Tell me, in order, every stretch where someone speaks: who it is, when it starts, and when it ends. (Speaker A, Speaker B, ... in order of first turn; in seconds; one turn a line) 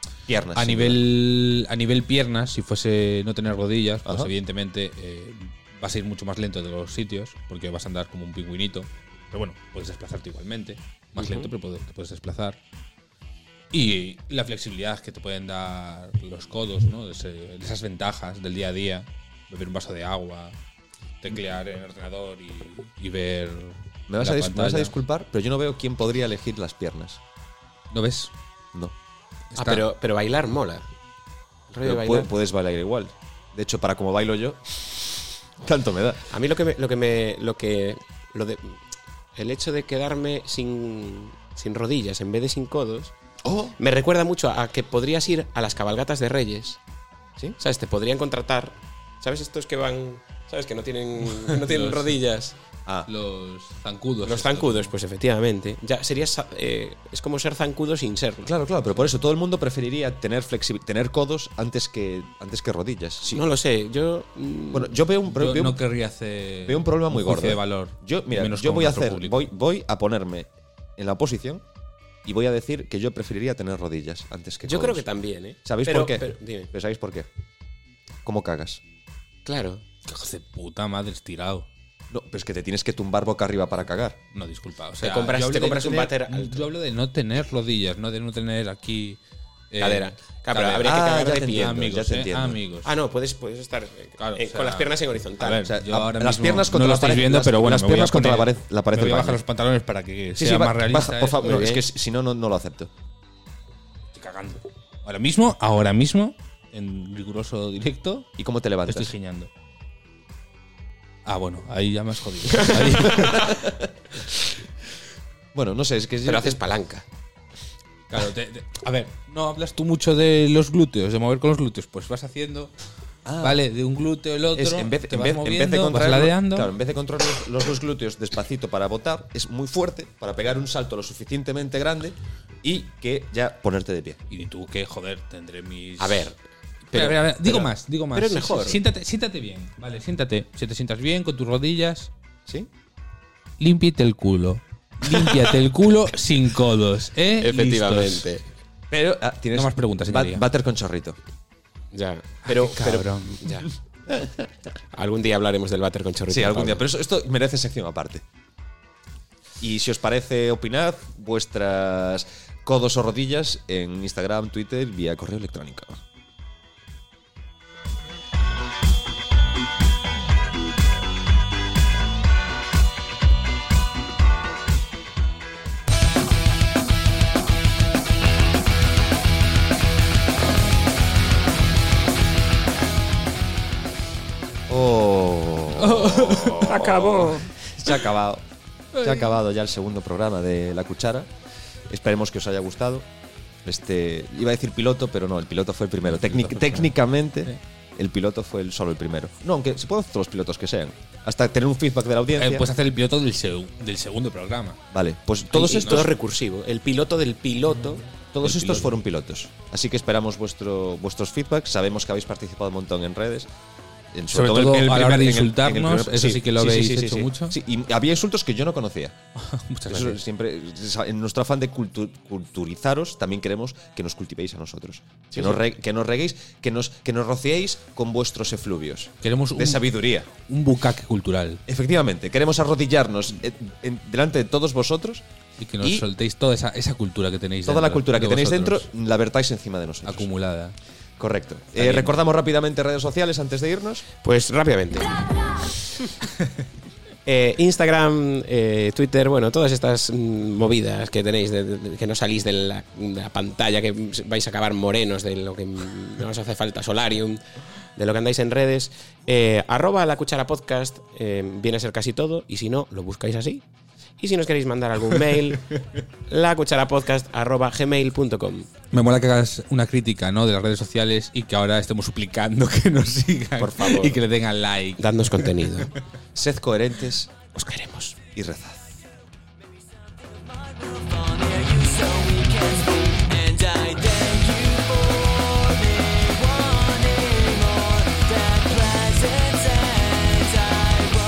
Speaker A: 0.3-1.0
Speaker B: 0.5-12.6
Speaker A: 4.0-4.3
Speaker C: 11.2-11.5
Speaker B: 13.7-20.6
Speaker B: 21.2-25.0
Speaker A: 24.1-27.2
Speaker B: 27.9-28.3
Speaker B: 29.5-29.9
Speaker C: 29.6-30.9
Speaker C: 31.7-32.3
Speaker A: 31.8-36.3
Speaker C: 36.3-38.8
Speaker C: 39.4-43.1
Speaker A: 43.4-43.8
Speaker C: 43.8-46.8
Speaker C: 47.6-52.5
Speaker B: 51.5-52.2
Speaker B: 53.1-54.9
Speaker C: 54.2-58.5
Speaker A: 58.4-63.4
Speaker C: 63.3-65.0
Speaker A: 64.7-65.8
Speaker B: 65.3-69.5
Speaker A: 66.7-71.6
Speaker A: 72.2-75.1
Speaker C: 74.7-76.7
Speaker A: 75.7-77.3
Speaker A: 78.2-78.8
Speaker C: 79.5-79.8
Speaker B: 80.1-81.7
Speaker A: 82.1-84.2
Speaker B: 84.3-89.2
Speaker C: 85.0-86.6
Speaker B: 89.7-92.9
Speaker C: 89.8-91.8
Speaker A: 90.8-92.6
Speaker C: 92.8-95.7
Speaker B: 94.2-101.7
Speaker A: 95.6-99.4
Speaker A: 100.4-102.9
Speaker C: 101.4-101.8
Speaker B: 104.1-108.3
Speaker A: 108.4-109.1
Speaker B: 108.9-109.5
Speaker B: 111.3-113.8
Speaker C: 112.7-113.3
Speaker A: 113.3-113.9
Speaker A: 115.5-116.6
Speaker C: 116.2-117.1
Speaker B: 118.1-122.7
Speaker A: 123.2-123.6
Speaker B: 123.4-126.7
Speaker A: 124.5-134.2
Speaker B: 134.3-136.3
Speaker C: 136.0-136.4
Speaker C: 136.9-138.8
Speaker B: 136.9-142.1
Speaker B: 143.6-148.3
Speaker C: 145.1-145.5
Speaker C: 147.4-148.4
Speaker A: 148.9-151.2
Speaker B: 149.5-150.4
Speaker C: 151.9-153.7
Speaker B: 152.5-153.7
Speaker A: 154.1-154.5
Speaker C: 154.9-156.9
Speaker A: 156.3-158.2
Speaker A: 159.6-166.0
Speaker A: 184.7-191.3
Speaker B: 185.8-188.0
Speaker B: 188.9-189.4
Speaker A: 191.9-193.1
Speaker A: 193.7-202.7
Speaker B: 196.1-197.6
Speaker B: 202.4-204.8
Speaker A: 204.9-206.1
Speaker C: 205.5-208.0
Speaker A: 208.3-213.5
Speaker A: 214.1-219.2
Speaker B: 214.3-217.6
Speaker B: 219.4-220.2
Speaker A: 219.9-230.3
Speaker B: 229.2-231.6
Speaker A: 231.7-235.2
Speaker B: 235.6-238.9
Speaker A: 235.8-236.1
Speaker A: 237.7-240.3
Speaker B: 240.1-240.8
Speaker A: 241.2-244.1
Speaker C: 241.8-242.1
Speaker C: 244.2-245.2
Speaker C: 247.3-257.4
Speaker C: 258.0-263.6
Speaker C: 264.2-265.7
Speaker C: 266.3-268.7
Speaker B: 268.9-275.9
Speaker C: 273.6-274.2
Speaker C: 275.0-275.9
Speaker A: 276.4-277.3
Speaker C: 277.6-278.2
Speaker A: 278.4-279.0
Speaker C: 281.2-288.6